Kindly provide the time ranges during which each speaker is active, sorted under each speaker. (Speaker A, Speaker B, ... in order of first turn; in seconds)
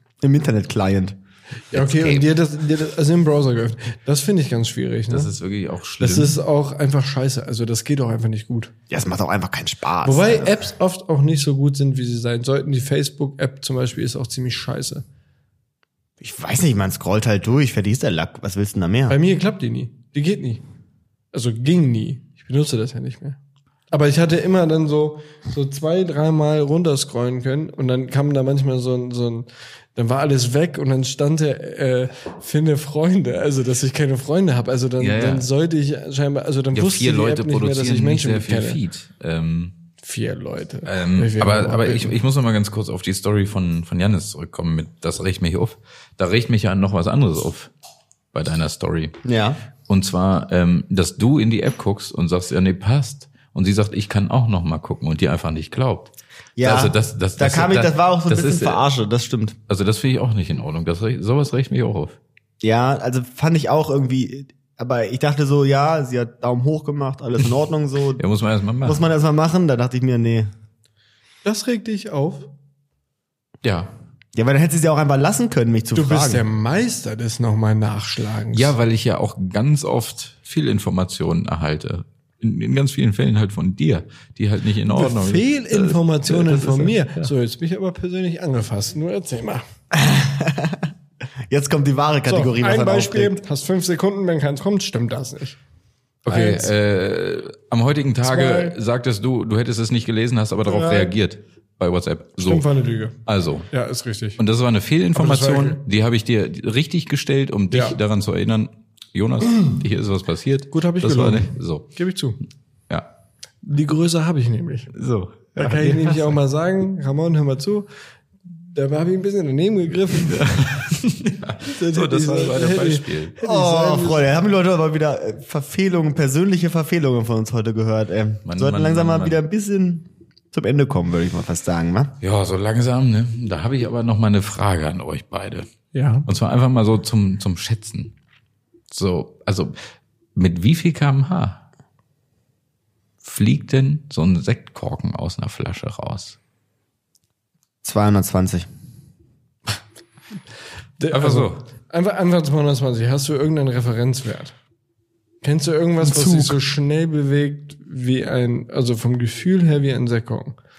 Speaker A: 0.2-1.2, 8.9-10.6, 16.2-19.1, 49.2-49.6, 56.6-59.5, 62.6-68.2, 68.8-70.5, 74.3-76.4, 89.9-90.9, 91.5-93.4, 123.4-132.1, 147.8-148.7, 156.0-156.6
Speaker B: 1.7-2.3, 5.1-6.4, 35.0-35.5, 36.7-39.7, 40.8-47.7, 48.3-49.1, 49.9-58.8, 59.7-62.2, 68.2-69.1, 73.6-73.9, 78.5-87.3, 96.2-102.7, 103.2-103.7, 104.4-111.9, 114.9-116.4, 120.1-123.4, 128.5-129.4, 132.2-135.7, 136.2-138.1, 138.9-139.8, 140.3-141.6, 143.2-146.4, 151.1-151.6
Speaker C: 1.7-5.3, 6.0-8.7, 10.0-15.0, 19.1-20.6, 21.3-23.4, 23.9-38.8, 40.0-42.1, 71.4-72.5, 75.9-78.7, 84.9-89.6, 92.3-95.6, 96.3-96.7, 98.2-98.8, 100.7-101.1, 102.4-103.2, 103.7-104.4, 105.1-105.8, 107.7-108.0, 110.7-112.4, 113.6-114.9, 115.5-117.9, 118.5-120.5, 121.6-124.2, 135.9-136.3, 151.0-154.6, 155.4-160.6